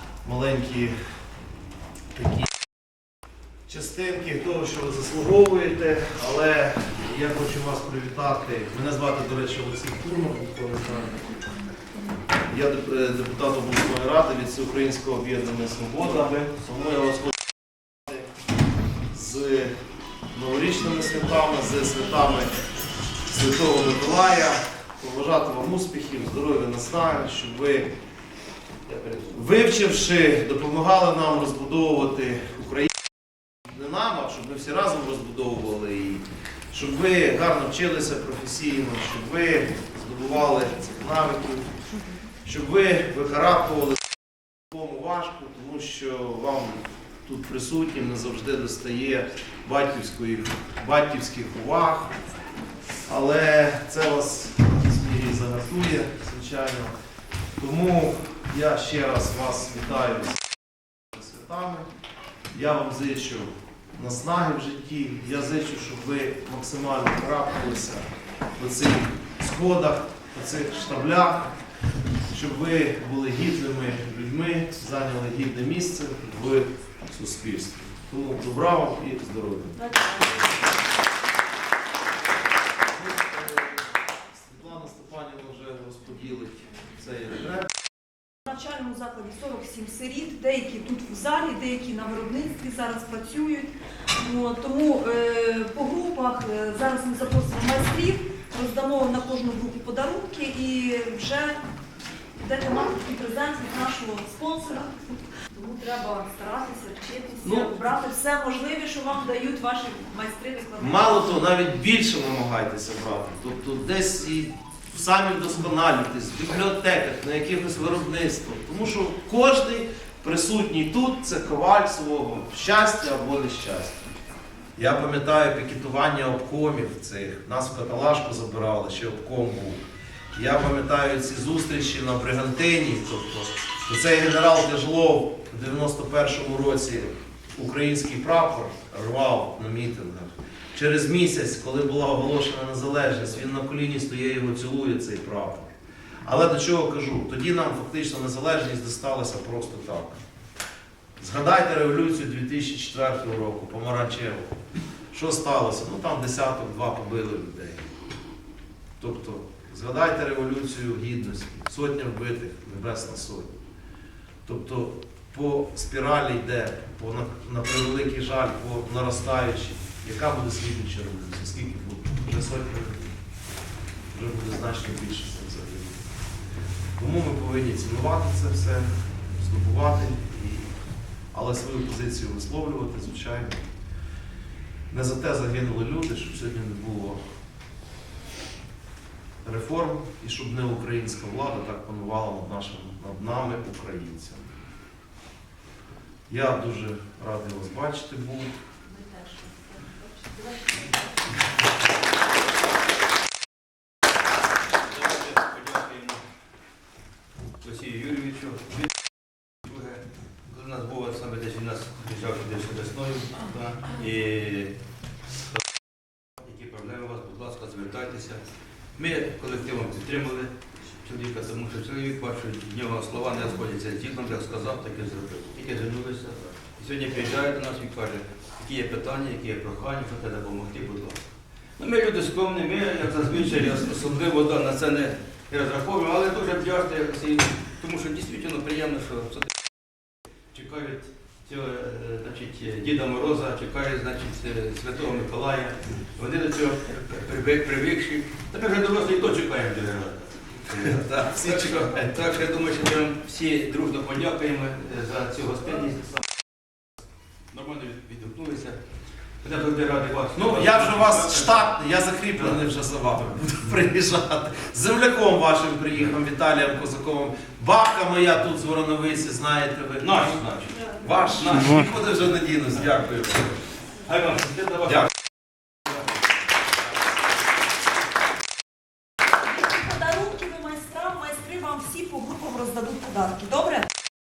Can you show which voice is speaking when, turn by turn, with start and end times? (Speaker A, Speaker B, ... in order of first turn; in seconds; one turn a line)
Speaker A: 0.2-0.9
Speaker A: 2.1-2.5
Speaker A: 3.7-11.3
Speaker A: 12.5-17.4
Speaker A: 19.1-19.7
Speaker A: 20.3-22.5
Speaker A: 23.3-27.9
Speaker B: 28.9-29.3
Speaker A: 29.2-32.9
Speaker A: 33.6-41.8
Speaker A: 42.4-44.0
Speaker A: 44.7-52.2
Speaker A: 53.1-56.9
Speaker A: 57.6-60.4
Speaker A: 61.1-61.9
Speaker A: 62.5-71.5
Speaker A: 72.3-80.0
Speaker C: 80.0-80.4
Speaker A: 82.8-87.7
Speaker C: 88.5-101.6
Speaker C: 102.4-111.5
Speaker A: 107.4-107.7
Speaker A: 110.8-124.0
Speaker A: 124.8-129.8
Speaker A: 130.3-145.7
Speaker A: 146.2-150.2
Speaker A: 151.2-154.5
Speaker A: 155.1-157.9
Speaker A: 159.0-163.5
Speaker A: 164.4-173.1
Speaker A: 174.1-176.1
Speaker A: 177.0-180.7
Speaker A: 181.3-183.6
Speaker A: 184.9-187.2
Speaker A: 189.4-194.4
Speaker A: 196.3-198.5
Speaker B: 204.8-206.2
Speaker B: 207.6-209.0
Speaker B: 209.6-214.7
Speaker B: 216.4-231.2
Speaker B: 231.8-239.5
Speaker B: 240.5-256.2
Speaker A: 250.8-252.0
Speaker B: 257.5-258.8
Speaker B: 259.4-261.8
Speaker A: 260.3-273.5
Speaker B: 262.4-262.6
Speaker B: 270.0-273.2
Speaker B: 274.0-275.1
Speaker C: 279.3-283.9